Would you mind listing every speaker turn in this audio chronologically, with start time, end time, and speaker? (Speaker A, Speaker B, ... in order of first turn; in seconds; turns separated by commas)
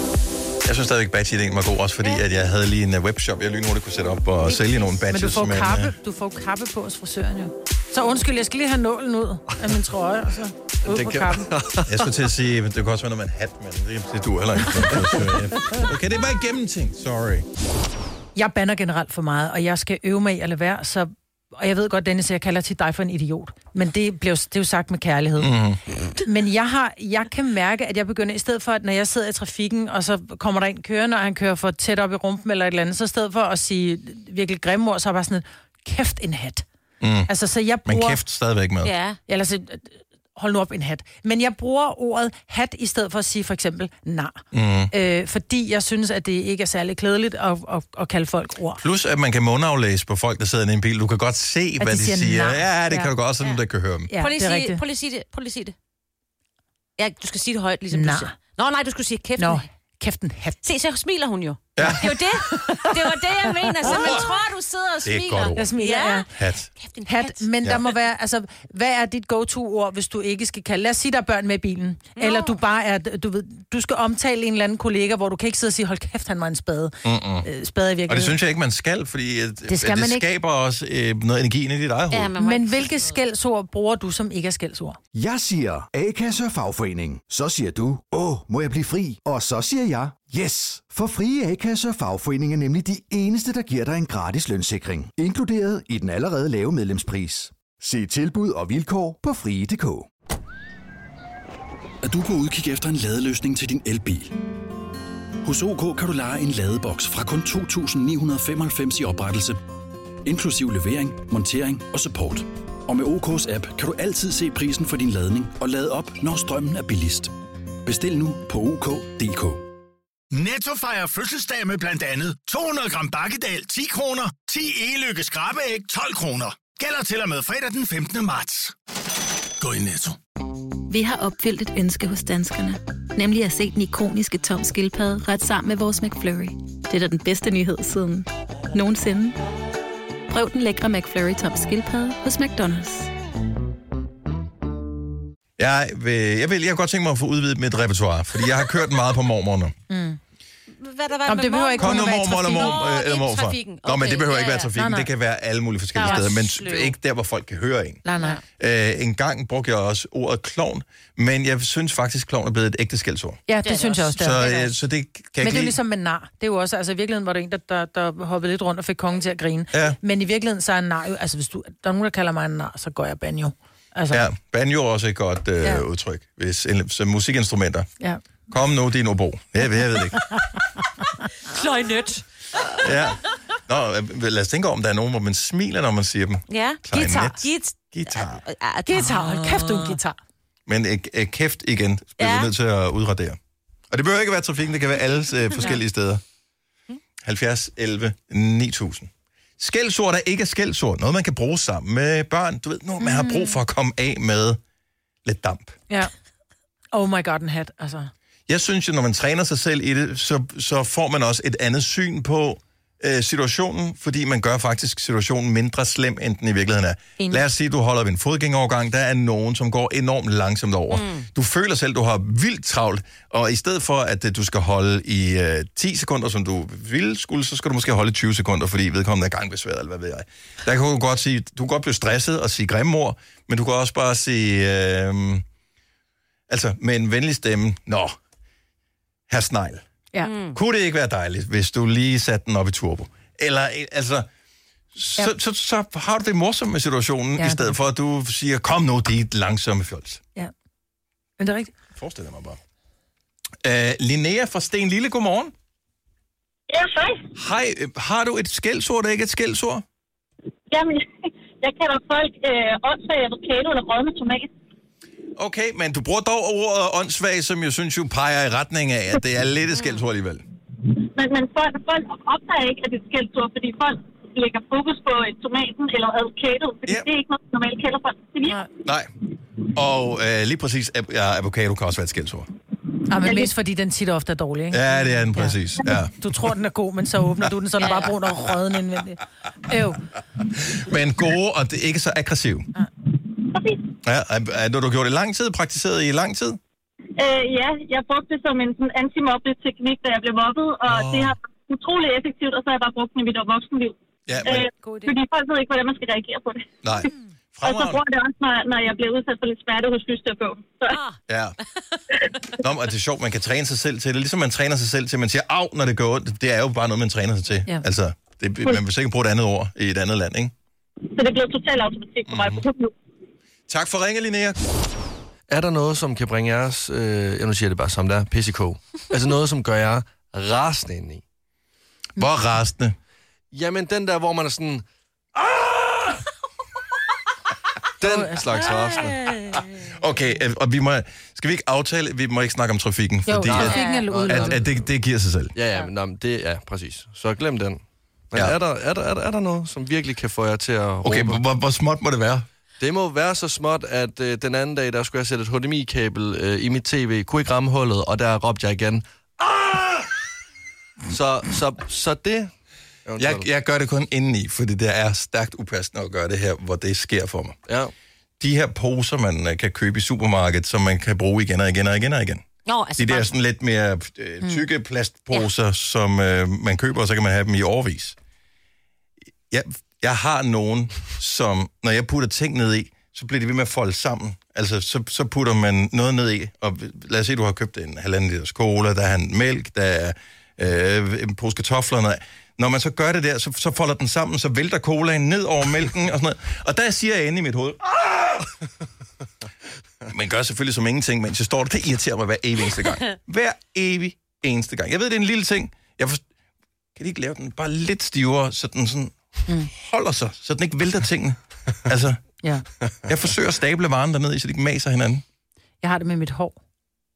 Speaker A: 0.6-5.9, Speaker B: 4.5-5.0, Speaker C: 5.0-11.5, Speaker D: 10.8-12.0, Speaker A: 11.9-17.4, Speaker C: 18.3-25.6, Speaker A: 25.4-25.8, Speaker C: 26.1-36.6, Speaker A: 37.0-37.3, Speaker C: 37.3-38.2, Speaker A: 37.9-38.9, Speaker B: 38.8-39.2, Speaker C: 39.3-48.8, Speaker A: 44.5-44.9, Speaker A: 48.8-54.1, Speaker C: 51.8-53.1, Speaker C: 54.1-54.8, Speaker B: 54.2-55.7, Speaker B: 57.0-59.7, Speaker C: 57.9-58.3, Speaker C: 59.4-60.6, Speaker B: 60.6-67.5, Speaker A: 61.8-62.1, Speaker C: 61.8-64.2, Speaker A: 63.9-64.4, Speaker A: 65.0-65.7, Speaker C: 65.5-66.3, Speaker A: 66.3-66.7, Speaker C: 67.0-78.4, Speaker B: 72.2-72.5, Speaker A: 77.0-77.5, Speaker A: 78.1-82.3, Speaker C: 79.7-80.3, Speaker B: 82.1-83.2, Speaker C: 82.4-85.0, Speaker E: 85.1-100.1, Speaker F: 102.0-104.3, Speaker F: 105.4-109.6, Speaker F: 110.2-117.3, Speaker F: 117.8-119.6, Speaker G: 120.4-128.5, Speaker H: 130.9-139.4, Speaker H: 140.3-143.1, Speaker A: 145.6-149.7, Speaker C: 149.9-150.2, Speaker B: 150.7-154.7, Speaker C: 151.2-152.8, Speaker A: 151.8-158.0, Speaker C: 154.7-155.1, Speaker B: 155.9-156.6, Speaker C: 155.9-156.9, Speaker C: 158.0-158.4, Speaker A: 158.6-163.4, Speaker C: 163.5-164.5, Speaker B: 163.6-164.7, Speaker A: 164.2-165.8, Speaker C: 165.4-174.2, Speaker A: 174.1-177.9, Speaker A: 178.5-180.2, Speaker C: 180.0-180.4, Speaker B: 181.5-182.6, Speaker A: 182.8-188.4, Speaker B: 186.5-189.9, Speaker C: 186.9-187.4, Speaker C: 188.9-190.2, Speaker A: 190.7-193.4, Speaker B: 192.2-192.5, Speaker A: 193.9-196.2, Speaker A: 197.2-204.6, Speaker C: 203.0-203.6, Speaker A: 205.2-205.8, Speaker C: 206.9-208.1, Speaker A: 208.5-235.4, Speaker C: 217.2-217.4, Speaker B: 220.9-221.2, Speaker A: 236.5-238.2, Speaker A: 239.3-239.8, Speaker B: 240.2-240.6, Speaker A: 240.5-244.3, Speaker A: 244.9-250.2, Speaker C: 247.4-247.8, Speaker C: 251.4-251.7, Speaker A: 251.9-252.6, Speaker A: 253.6-255.5, Speaker I: 256.7-257.2, Speaker A: 257.4-259.8, Speaker I: 260.7-264.5, Speaker A: 265.4-270.4, Speaker I: 270.8-278.6, Speaker A: 278.8-279.1, Speaker A: 279.6-282.5, Speaker C: 283.1-290.0, Speaker I: 283.2-283.5, Speaker A: 284.7-286.1, Speaker B: 287.8-288.1, Speaker A: 290.4-292.7, Speaker I: 293.4-293.9, Speaker A: 294.0-296.6, Speaker I: 297.2-307.0, Speaker A: 300.9-301.4, Speaker A: 304.3-304.7, Speaker C: 304.4-305.2, Speaker A: 306.8-308.0, Speaker I: 307.6-311.0, Speaker B: 310.9-311.2, Speaker A: 311.3-311.6, Speaker A: 312.5-320.5, Speaker I: 321.0-322.9, Speaker A: 322.3-322.6, Speaker A: 323.7-324.6, Speaker D: 325.5-331.2, Speaker A: 332.2-332.9, Speaker D: 333.5-334.8, Speaker D: 338.0-339.1, Speaker C: 338.0-338.5, Speaker A: 338.5-345.5, Speaker B: 338.8-339.7, Speaker C: 343.3-344.6, Speaker B: 343.5-344.1, Speaker D: 344.1-344.7, Speaker D: 345.6-347.8, Speaker D: 348.3-351.4, Speaker A: 351.0-352.4, Speaker D: 352.8-360.1, Speaker D: 361.1-362.5, Speaker D: 363.1-363.5, Speaker A: 363.2-367.6, Speaker A: 368.4-372.4, Speaker B: 372.6-373.3, Speaker A: 372.9-378.1, Speaker A: 379.5-398.5, Speaker A: 400.1-406.2, Speaker A: 406.9-412.2, Speaker A: 413.1-415.2, Speaker C: 415.8-416.5